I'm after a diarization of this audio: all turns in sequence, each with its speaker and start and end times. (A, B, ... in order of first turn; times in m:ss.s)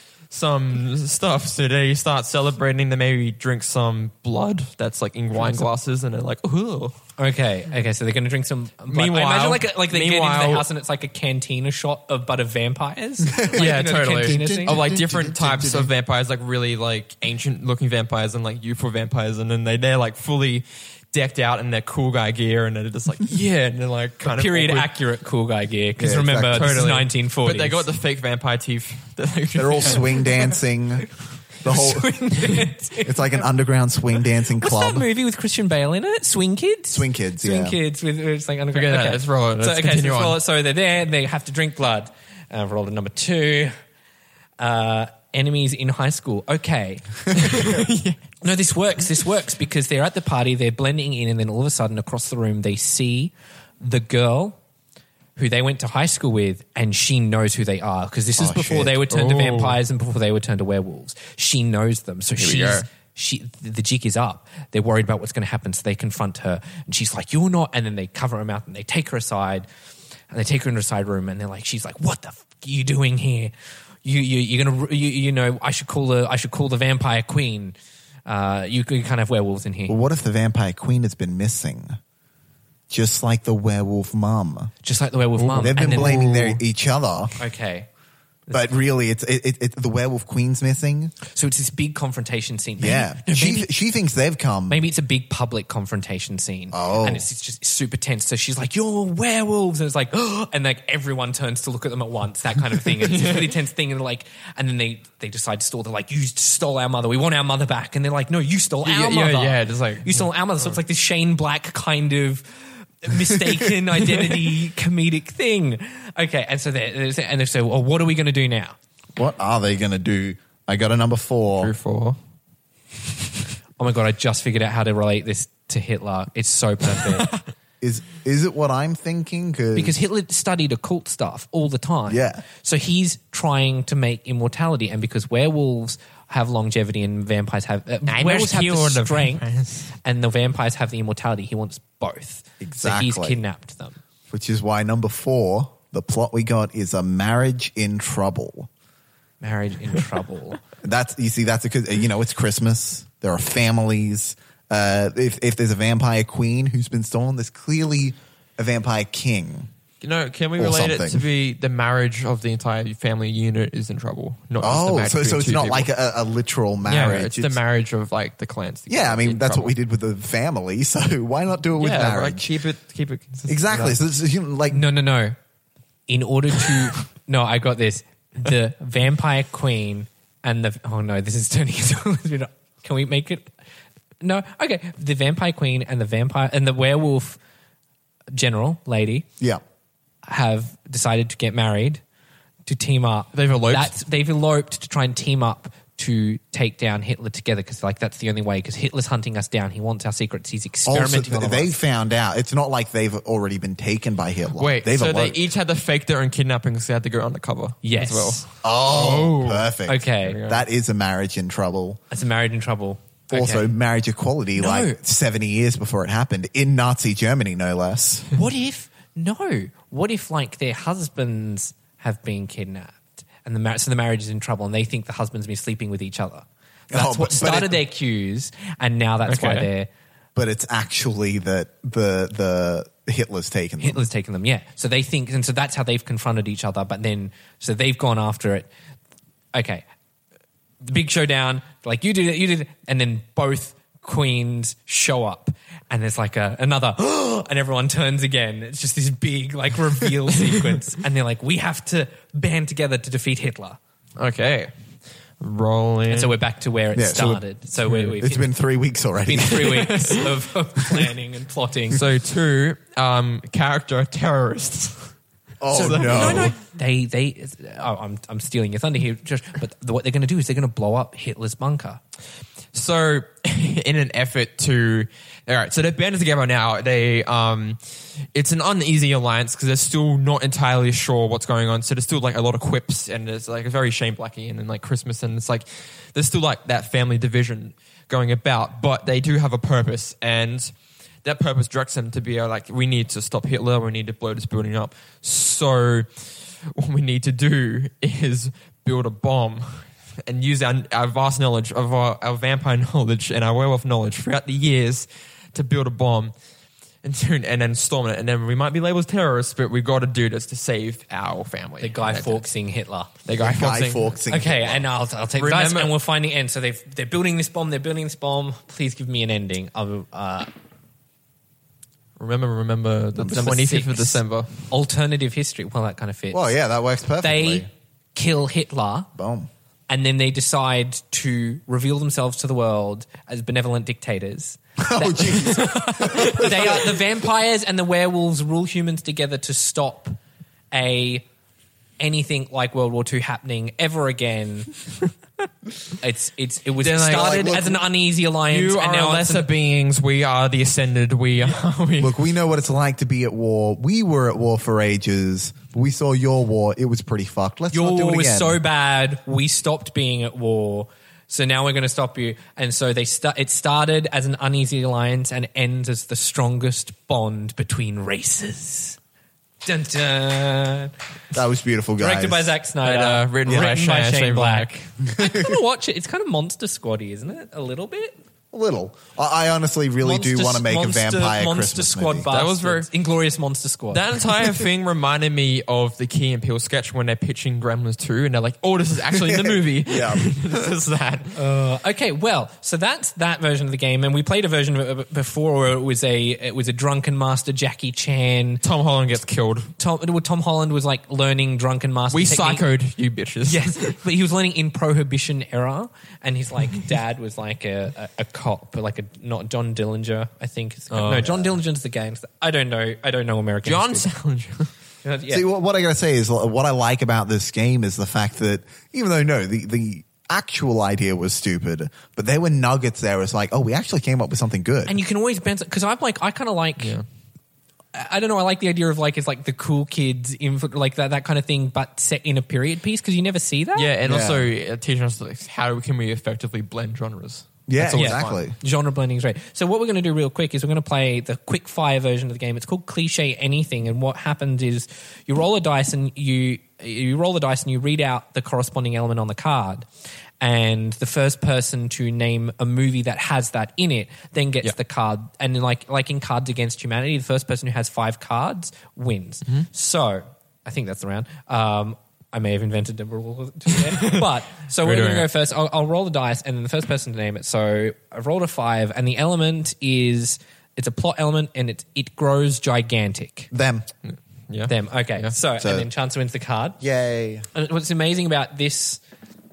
0:00.3-0:07.0 A
0:07.2-0:14.9 B
0:08.9-0:10.7 A
0:13.3-0:15.9 C
0:13.5-0:24.9 A
0:24.2-0:27.9 B
0:26.0-0:26.9 C
0:26.4-0:30.1 A
0:29.6-0:31.1 C
0:31.6-0:32.2 C
0:31.6-0:33.4 B
0:33.0-0:35.1 C
0:34.6-0:43.7 B
0:36.9-0:37.8 C
0:38.7-0:40.4 A
0:44.6-0:47.7 B
0:47.3-0:48.2 A
0:48.4-0:54.6 B
0:55.4-1:09.7 B
0:58.4-0:59.0 C
0:59.1-0:59.8 A
1:02.4-1:02.9 A
1:10.3-1:13.5 B
1:14.0-1:20.0 B
1:19.9-1:22.0 C
1:22.9-1:24.7 C
1:24.8-1:26.6 B
1:25.4-1:26.4 A
1:25.6-1:27.4 C
1:27.4-1:27.9 B
1:28.5-1:31.1 C
1:31.3-1:33.7 B
1:32.8-1:34.8 C
1:34.7-1:58.8 B
1:36.7-1:37.2 C
1:43.0-1:43.5 A
1:48.8-1:50.8 A
1:59.2-2:01.7 C
2:01.6-2:02.2 A
2:03.8-2:07.3 B
2:07.0-2:07.4 A
2:07.8-2:10.0 C
2:09.8-2:19.4 B
2:12.1-2:12.4 C
2:18.1-2:19.9 A
2:20.0-2:24.0 B
2:22.6-2:23.4 C
2:24.3-2:28.7 C
2:29.4-2:30.6 B
2:30.8-2:39.7 C
2:40.0-2:45.9 A
2:40.6-2:41.2 C
2:44.6-2:47.6 C
2:46.8-2:49.7 A
2:48.9-2:52.5 C
2:51.8-2:54.0 A
2:53.5-2:54.8 C
2:54.7-2:55.4 B
2:56.1-3:03.5 B
3:04.2-3:07.4 B
3:08.3-3:09.3 B
3:10.2-3:12.0 B
3:12.7-3:21.7 B
3:13.3-3:13.9 A
3:20.9-3:25.4 C
3:24.6-3:30.6 A
3:27.8-3:28.4 B
3:28.6-3:32.0 C
3:29.9-3:30.4 B
3:32.1-3:33.7 B
3:33.3-3:38.3 C
3:34.6-3:35.0 B
3:38.4-3:49.9 B
3:46.9-3:47.8 C
3:49.3-3:49.7 A
3:50.4-3:54.1 C
3:53.8-3:58.7 B
3:59.5-3:59.8 B
4:00.8-4:13.8 B
4:14.2-4:14.7 A
4:15.4-4:16.4 A
4:16.1-4:18.5 B
4:17.0-4:17.4 C
4:17.8-4:18.1 A
4:18.1-4:20.0 C
4:19.3-4:22.0 B
4:19.6-4:20.3 A
4:21.9-4:25.1 A
4:25.6-4:26.5 C
4:25.7-4:32.0 B
4:25.7-4:26.6 A
4:32.7-4:37.8 A
4:38.3-4:50.7 A
4:51.2-5:06.3 A
5:07.0-5:12.5 A
5:11.8-5:13.1 B
5:13.3-5:14.2 A
5:13.4-5:14.9 C
5:14.3-5:20.5 B
5:15.3-5:15.9 A
5:22.2-5:24.6 A
5:23.2-5:23.5 C
5:23.2-5:26.6 B
5:26.3-5:27.7 C
5:27.2-5:29.1 B
5:29.2-5:29.5 C
5:29.9-5:40.2 B
5:34.8-5:36.9 C
5:40.7-5:41.3 B
5:42.0-5:44.7 B
5:46.0-5:49.5 B
5:46.8-5:47.8 A
5:47.1-5:47.6 C
5:48.5-5:52.2 A
5:52.0-5:58.6 C
5:57.7-6:09.0 B
6:09.6-6:10.9 B
6:11.3-6:12.6 C
6:12.0-6:18.2 B
6:12.8-6:14.8 A
6:15.1-6:15.6 C
6:18.5-6:22.3 C
6:20.0-6:24.0 B
6:22.3-6:22.9 A
6:23.9-6:31.4 A
6:29.1-6:30.6 C
6:31.4-6:38.6 B
6:38.6-6:39.7 A
6:39.8-6:42.6 B
6:42.1-6:44.0 A
6:43.4-6:54.1 B
6:50.9-6:51.3 A
6:51.2-6:51.5 C
6:53.6-6:54.7 A
6:55.0-6:55.4 B
6:55.3-7:05.0 C
7:04.9-7:07.0 B
7:06.8-7:07.0 A
7:07.9-7:13.9 B
7:13.8-7:18.4 A
7:14.0-7:14.5 C
7:17.7-7:18.6 C
7:17.9-7:29.9 B
7:30.4-7:53.5 B
7:43.8-7:44.3 A
7:44.8-7:45.3 A
7:53.5-7:53.9 C
7:54.0-7:55.4 A
7:54.7-7:56.8 B
7:55.6-7:55.9 C
7:56.8-7:57.5 C
7:57.5-7:59.0 B